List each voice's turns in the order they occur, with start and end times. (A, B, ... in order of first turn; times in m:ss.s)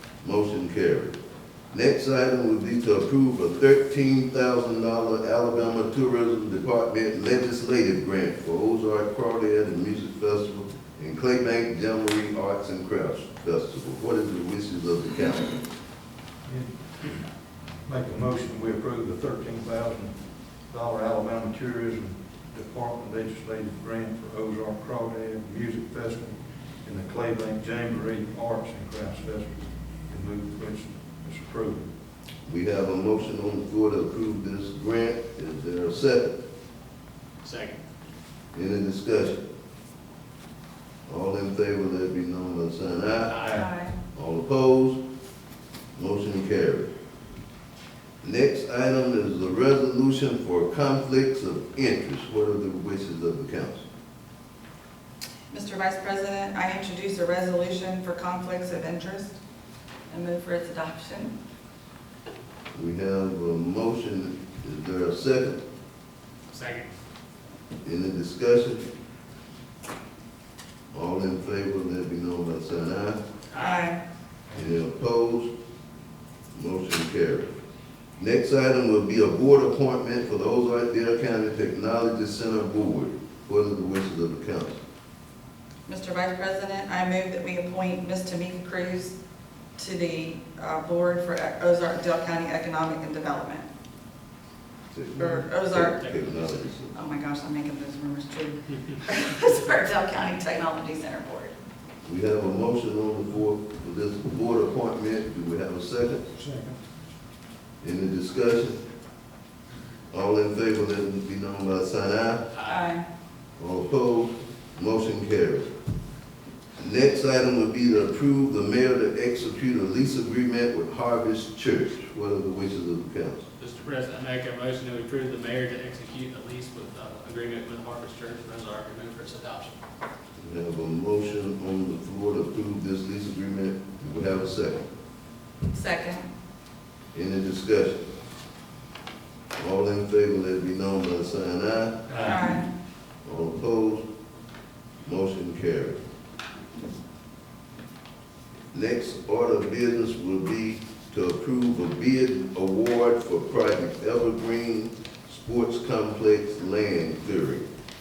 0:00.2-0:01.2 A
0:01.7-0:15.6 A
0:16.4-0:17.2 B
0:17.8-0:31.9 B
0:32.4-0:36.4 A
0:37.4-0:37.8 C
0:38.5-0:39.4 A
0:41.1-0:43.6 A
0:43.3-0:43.6 C
0:43.5-0:44.0 D
0:44.1-0:45.0 A
0:46.0-0:46.9 A
0:48.2-0:53.8 A
0:55.5-0:59.4 D
1:00.1-1:01.3 D
1:02.7-1:05.6 A
1:06.5-1:06.9 C
1:07.8-1:08.8 A
1:10.9-1:13.2 A
1:13.5-1:13.9 C
1:13.6-1:14.0 D
1:14.5-1:15.5 A
1:16.5-1:17.5 A
1:18.2-1:24.8 A
1:25.9-1:29.2 D
1:29.8-1:33.6 D
1:34.9-1:37.0 A
1:35.2-1:36.0 D
1:36.0-1:36.4 C
1:36.9-1:41.5 D
1:42.0-1:46.2 A
1:46.3-1:46.8 B
1:47.8-1:48.8 A
1:50.1-1:52.5 A
1:52.5-1:52.9 C
1:52.7-1:53.0 D
1:53.6-1:55.7 A
1:56.8-2:03.4 A
2:03.6-2:09.8 C
2:10.4-2:14.8 A
2:15.7-2:16.3 D
2:17.1-2:18.0 A
2:19.5-2:22.3 A
2:22.1-2:22.6 B
2:22.2-2:22.7 D
2:23.2-2:24.0 A
2:25.0-2:26.0 A
2:28.7-2:37.6 A